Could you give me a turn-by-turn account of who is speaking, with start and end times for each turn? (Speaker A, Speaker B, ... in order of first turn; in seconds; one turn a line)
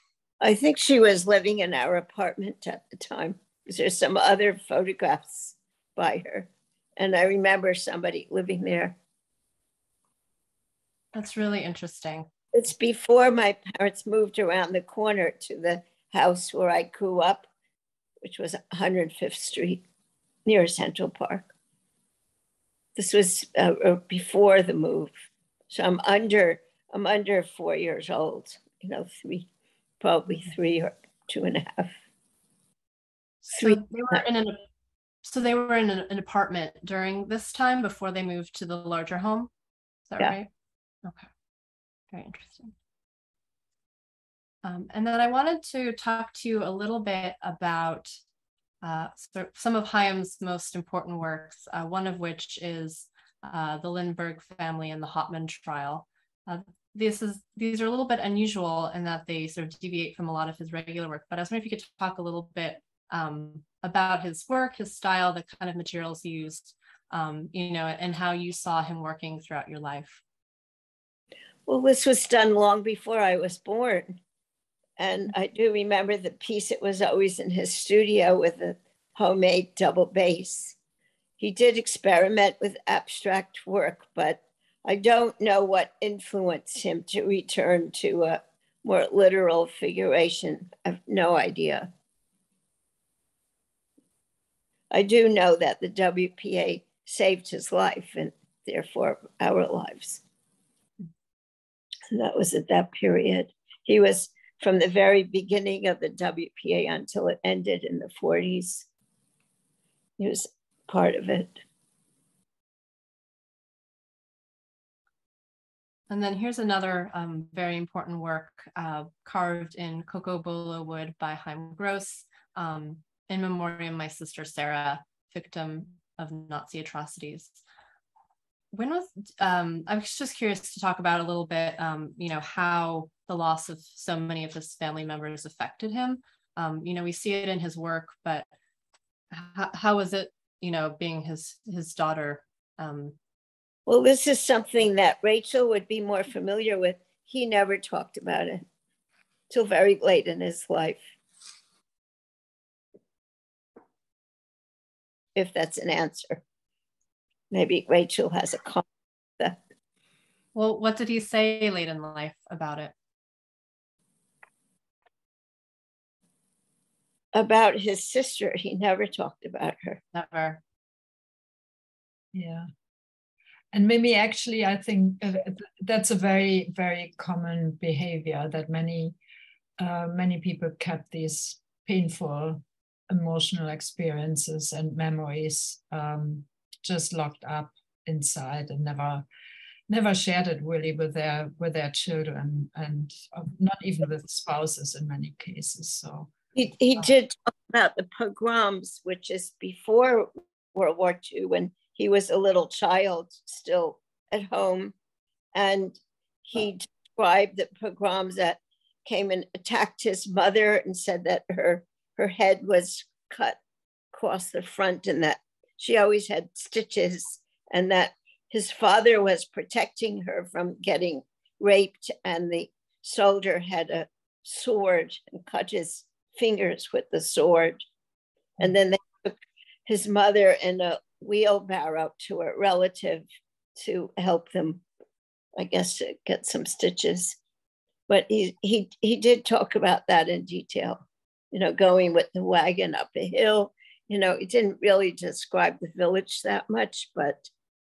Speaker A: 0.4-8.9
Speaker B: 11.2-12.2
Speaker A: 12.5-17.5
Speaker A: 18.2-19.8
Speaker A: 20.4-21.5
Speaker A: 22.9-29.5
Speaker A: 30.0-31.9
Speaker A: 33.5-34.2
Speaker B: 33.6-34.5
Speaker B: 35.3-39.5
Speaker B: 40.1-40.5
Speaker B: 42.1-42.6
Speaker B: 44.7-48.0
Speaker B: 48.9-70.1
Speaker A: 71.7-74.2
Speaker A: 75.0-80.7
Speaker A: 81.4-91.9
Speaker A: 94.9-100.2
Speaker A: 102.1-108.8
Speaker A: 110.2-111.6
Speaker C: 116.2-122.0
Speaker B: 116.5-116.9
Speaker B: 117.8-118.2
Speaker C: 123.4-124.9
Speaker B: 124.1-124.7
Speaker C: 126.3-127.3
Speaker C: 129.5-136.0
Speaker B: 129.9-135.8
Speaker C: 136.7-138.0
Speaker B: 136.9-137.9
Speaker C: 139.9-140.1
Speaker C: 140.7-142.2
Speaker B: 140.8-141.3
Speaker B: 141.9-142.1
Speaker A: 143.9-148.6
Speaker A: 149.5-151.1
Speaker A: 155.3-156.4
Speaker A: 157.5-158.8
Speaker C: 160.6-162.9
Speaker A: 167.3-170.0
Speaker C: 170.2-170.6
Speaker D: 172.3-172.7
Speaker D: 173.7-179.2
Speaker D: 179.8-189.2
Speaker D: 189.9-196.3
Speaker A: 196.5-204.9
Speaker A: 205.5-213.6
Speaker A: 214.1-227.8
Speaker A: 228.6-233.2
Speaker A: 233.8-234.8
Speaker A: 235.6-237.4
Speaker A: 238.1-247.5